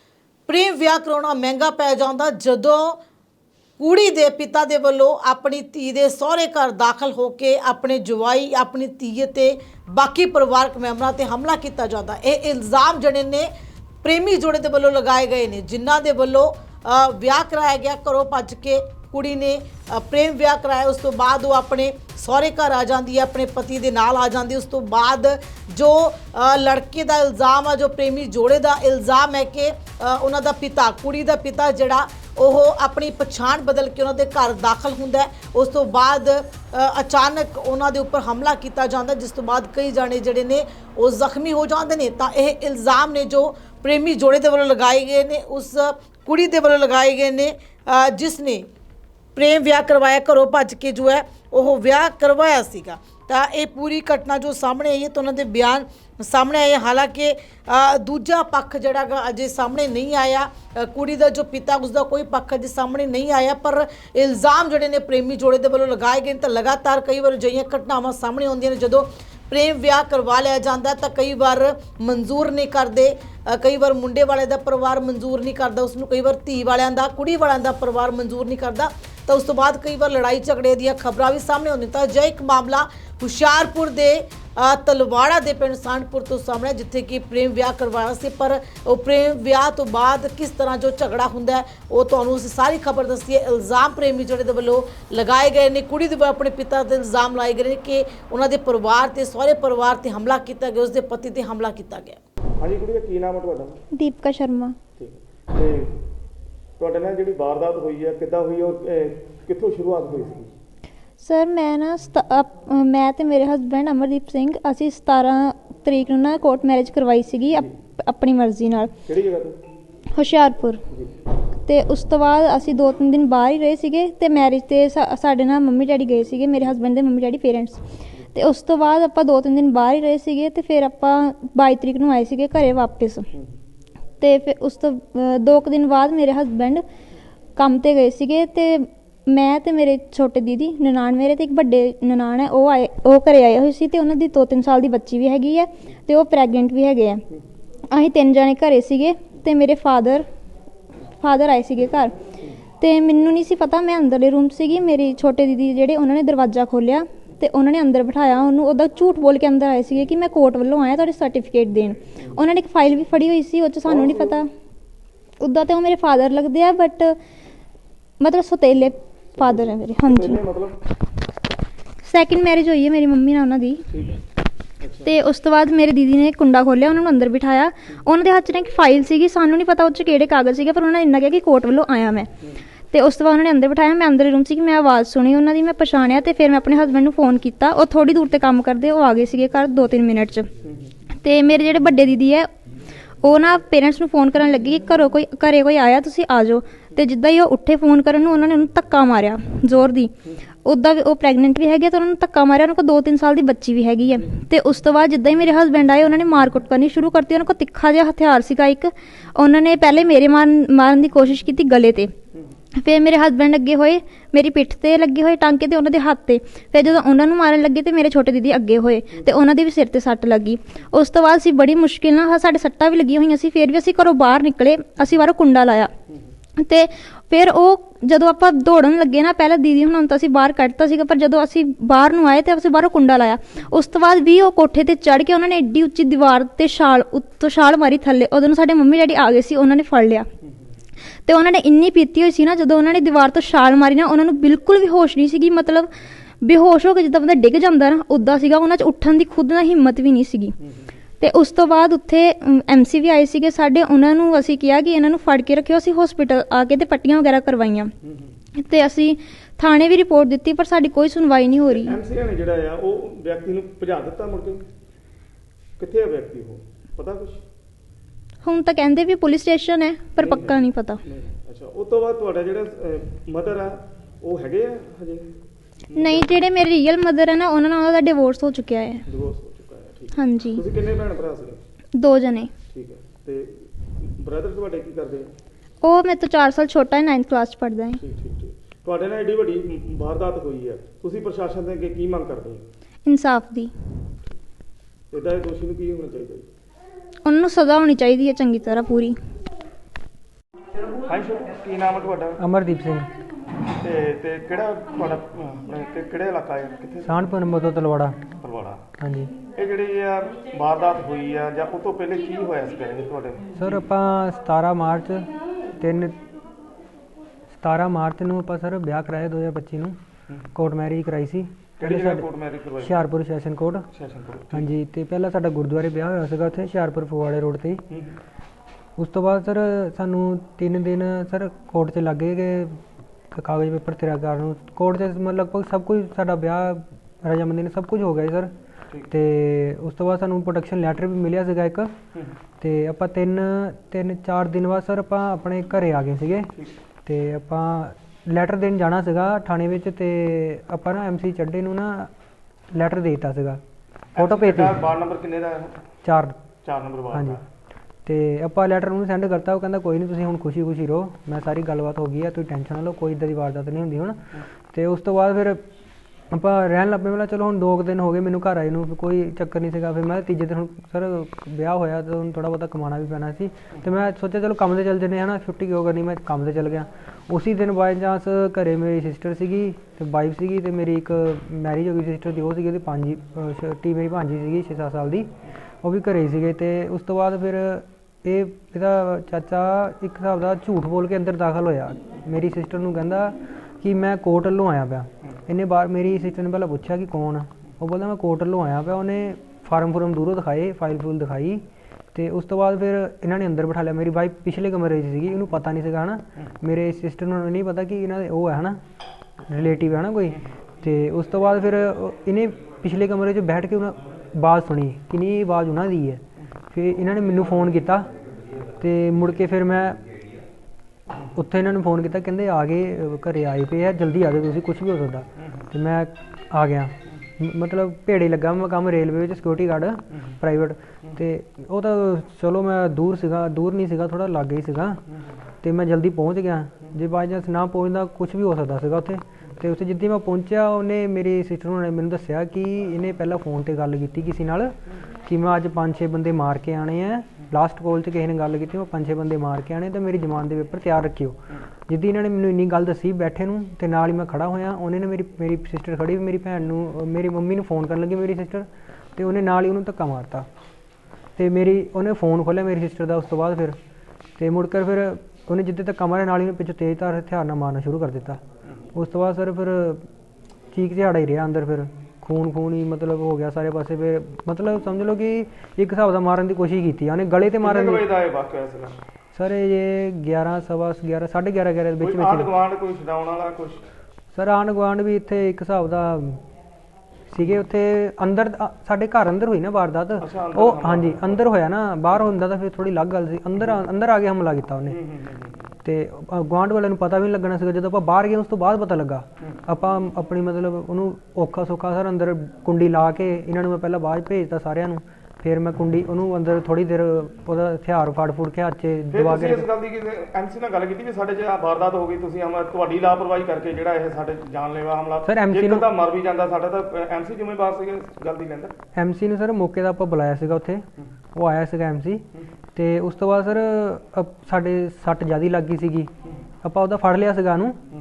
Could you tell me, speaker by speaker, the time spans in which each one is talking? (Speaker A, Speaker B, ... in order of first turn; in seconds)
Speaker A: 0.5-3.0, 3.8-13.4, 14.0-48.6, 49.4-102.2
Speaker B: 102.6-103.8, 105.0-106.0, 106.8-110.5, 119.0-119.6, 163.8-164.4, 169.4-170.8, 173.9-174.2, 174.8-175.1, 190.6-190.9, 258.0-258.3, 261.7-264.6, 265.8-267.4, 270.2-275.3, 275.9-276.3, 279.1-281.6, 282.7-285.3, 288.0-292.6, 295.1-296.4, 301.0-302.4, 303.7-307.1, 308.4-308.8, 309.6-313.4, 321.8-322.9, 323.9-324.6, 327.9-328.1, 354.1-355.8, 356.6-357.4, 477.6-479.0, 482.0-483.9, 490.2-491.4, 494.9-495.7, 509.1-518.7
Speaker C: 103.9-104.8, 111.2-118.9, 120.1-120.8, 121.7-127.8, 128.3-133.3, 134.2-136.8, 137.6-147.2, 147.9-150.2, 151.2-152.1, 152.8-164.5, 165.4-167.2, 168.2-170.4, 172.0-173.8, 175.0-182.3, 182.9-190.5, 191.2-192.5, 193.2-200.1, 200.6-212.1, 212.8-225.9, 226.6-240.3, 241.2-245.9, 246.4-250.6, 251.2-257.9, 258.6-262.0, 268.4-271.0, 275.9-279.0, 280.1-280.6, 281.9-282.5, 285.8-288.0, 293.0-293.7, 297.2-299.1
Speaker D: 302.4-303.1, 307.0-308.2, 309.0-309.3, 313.6-315.3, 315.8-316.1, 317.5-320.0, 320.5-322.3, 322.8-323.9, 324.5-327.8, 329.0-332.8, 333.3-338.5, 339.1-341.9, 342.6-346.5, 347.1-352.1, 352.7-353.6, 354.1-354.9, 356.0-356.4, 357.1-357.4, 358.1-365.6, 366.3-401.6, 402.1-408.8, 409.5-416.2, 416.7-418.1, 418.8-420.0, 421.3-435.0, 435.6-460.5, 461.4-463.8, 464.4-468.4, 468.9-470.0, 470.7-478.1, 479.3-482.5, 484.3-486.4, 487.3-495.0, 495.8-509.7, 515.2-515.9, 518.9-522.2, 522.8-526.1, 526.6-527.8